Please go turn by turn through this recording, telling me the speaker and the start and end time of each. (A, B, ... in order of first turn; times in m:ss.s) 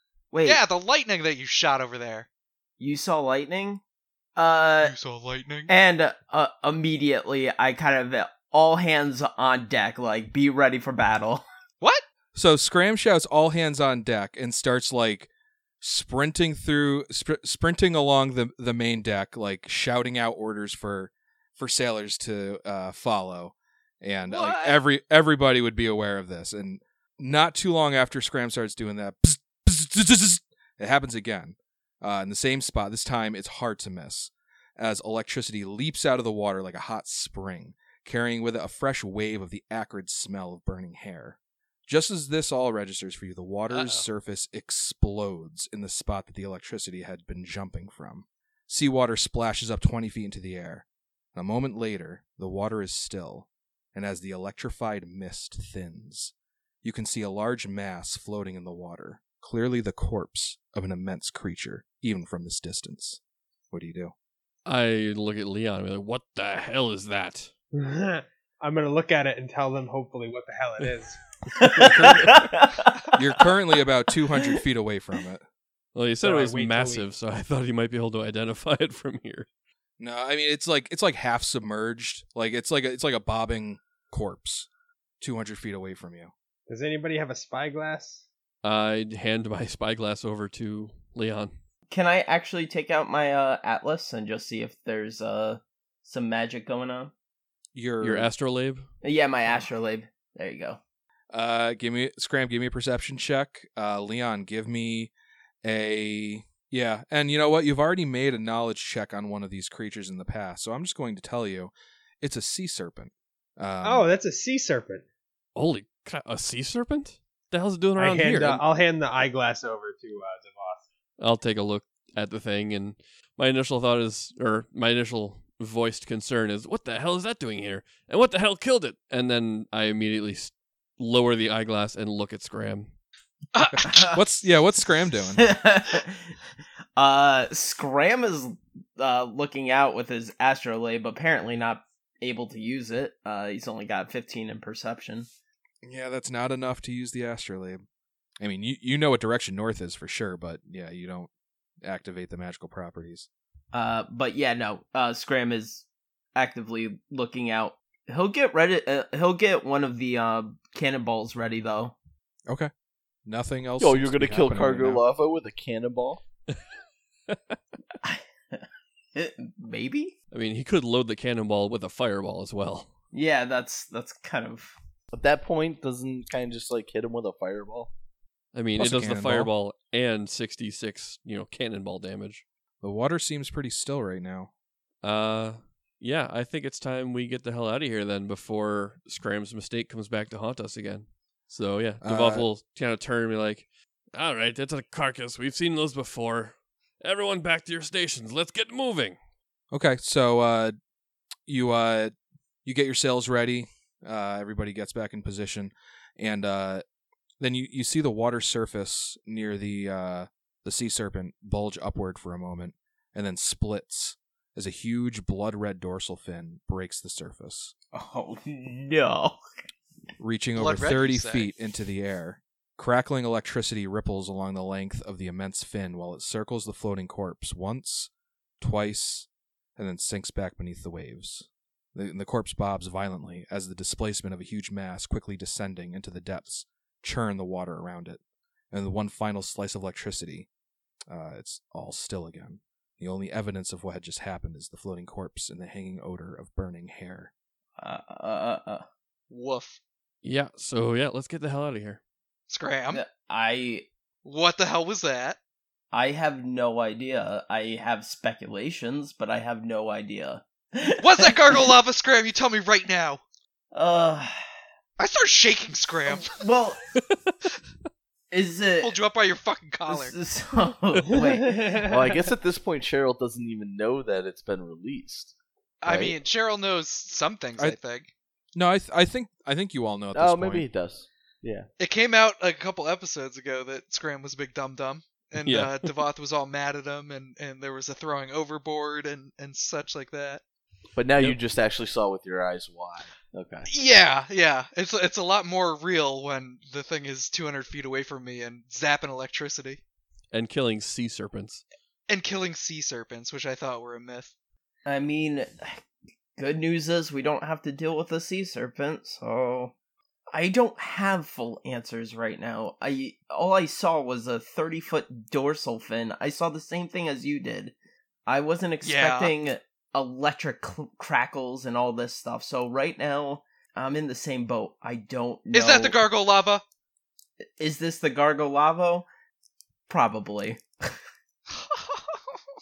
0:00.3-0:00.6 A
0:00.4-0:02.3 B
0:02.8-0:03.8 A
0:04.4-0:04.9 A
0:04.8-0:05.7 B
0:05.7-0:11.4 A
0:12.3-0:15.3 C
0:15.8-1:03.2 C
0:24.3-0:24.8 B
0:43.7-0:44.1 B
1:03.7-1:04.1 C
1:04.6-1:07.5 D
1:07.7-1:11.2 E
1:11.5-1:13.1 A
1:11.8-1:12.5 C
1:13.1-1:15.4 C
1:15.9-1:19.5 D
1:16.2-1:17.0 E
1:20.0-1:24.7 C
1:25.2-1:26.3 C
1:26.7-1:28.2 E
1:28.6-1:31.5 D
1:31.9-1:37.1 A
1:37.7-1:38.3 C
1:38.0-1:38.9 D
1:39.0-1:40.8 A
1:41.3-1:45.1 C
1:45.6-1:54.1 C
1:53.8-1:55.0 E
1:55.5-1:58.6 D
1:58.0-2:00.8 E
2:01.2-2:12.9 D
2:13.5-2:14.4 B
2:13.7-2:15.5 C
2:15.4-2:16.3 A
2:17.0-2:25.3 A
2:25.8-2:27.8 C
2:28.4-2:31.3 C
2:31.8-2:33.3 C
2:33.7-2:42.0 A
2:43.2-2:45.0 C
2:43.8-2:46.2 F
2:47.3-2:47.6 D
2:48.0-2:48.6 A
2:49.1-2:50.1 A
2:50.3-2:52.9 D
2:53.1-2:54.7 A
2:55.1-2:57.9 F
2:58.5-3:02.4 D
2:58.8-2:59.5 C
3:02.8-3:04.5 C
3:05.0-3:19.2 D
3:12.0-3:12.4 C
3:19.7-3:20.8 C
3:21.4-3:22.1 C
3:22.6-3:26.8 C
3:27.4-3:37.7 C
3:37.9-3:39.4 A
3:40.2-3:58.2 C
3:40.6-3:41.6 B
3:58.7-4:00.5 C
4:01.1-4:07.3 C
4:07.8-4:08.8 A
4:09.3-4:09.8 B
4:10.2-4:12.0 D
4:12.5-4:13.0 B
4:12.9-4:13.9 A
4:14.2-4:15.4 B
4:15.9-4:21.7 A
4:21.0-4:23.2 B
4:23.7-4:24.4 A
4:25.0-4:26.3 B
4:26.1-4:26.8 A
4:26.9-4:27.4 D
4:28.3-4:29.0 A
4:28.8-4:30.1 B
4:29.9-4:32.0 A
4:31.1-4:32.0 E
4:31.8-4:35.3 F
4:35.8-4:38.1 B
4:35.8-4:36.2 F
4:38.5-4:40.7 C
4:40.1-4:41.7 F
4:41.8-4:50.4 B
4:45.4-4:45.9 D
4:51.0-4:53.7 F
4:53.7-4:59.8 B
5:00.3-5:01.6 D
5:02.1-5:04.3 B
5:04.8-5:05.8 A
5:06.4-5:09.7 A
5:10.3-5:17.7 A
5:18.3-5:26.0 A
5:18.8-5:19.4 B
5:25.5-5:26.6 B
5:27.6-5:29.1 A
5:29.9-5:30.6 A
5:31.5-5:32.4 B